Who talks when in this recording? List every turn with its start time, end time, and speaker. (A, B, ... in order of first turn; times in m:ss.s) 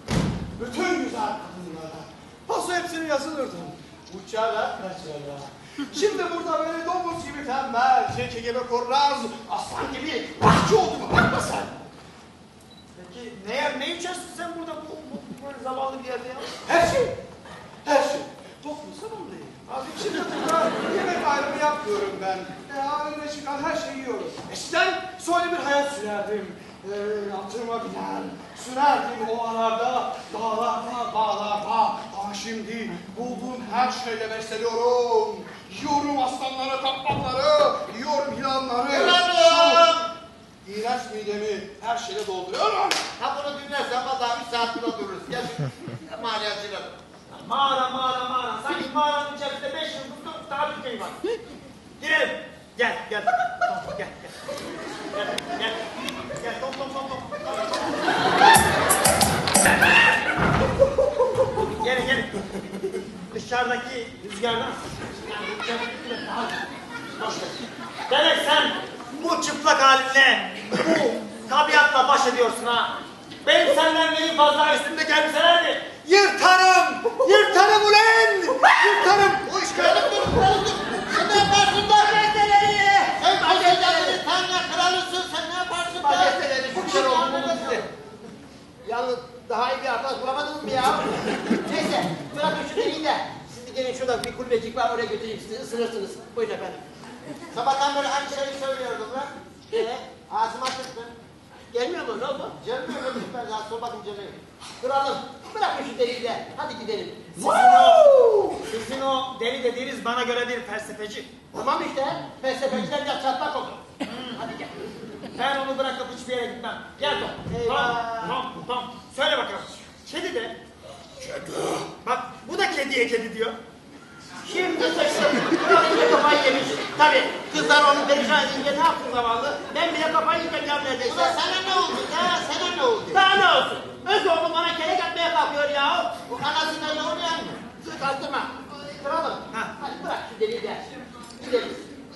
0:00.6-0:11.8 A
0:13.0-0:16.6 B
0:16.7-0:17.2 A
0:17.8-0:39.9 A
0:38.9-0:40.1 C
0:40.6-0:43.0 A
0:43.2-0:47.0 C
0:47.3-0:51.2 B
0:52.0-0:54.4 B
0:55.1-0:58.3 B
1:01.8-1:02.3 B
1:03.3-1:06.6 B
1:07.2-1:07.6 B
1:08.1-1:19.0 B
1:16.1-1:17.8 A
1:18.4-1:19.4 A
1:19.4-1:22.2 C
1:22.0-1:23.1 B
1:23.0-1:24.2 D
1:23.2-1:27.8 C
1:26.0-1:27.9 D
1:28.8-1:36.9 D
1:37.5-1:39.3 C
1:39.7-1:40.1 D
1:40.3-1:41.1 C
1:41.7-1:42.6 D
1:42.6-1:44.4 C
1:44.8-1:47.4 D
1:47.4-1:48.0 B
1:47.5-1:48.6 A
1:48.7-1:51.4 B
1:51.5-1:53.8 D
1:54.0-1:54.4 B
1:54.4-1:54.7 D
1:55.4-2:00.6 B
1:57.5-1:58.4 D
2:02.0-2:03.6 B
2:04.4-2:11.4 D
2:11.0-2:13.3 C
2:13.1-2:16.1 D
2:16.3-2:17.6 C
2:17.8-2:21.9 D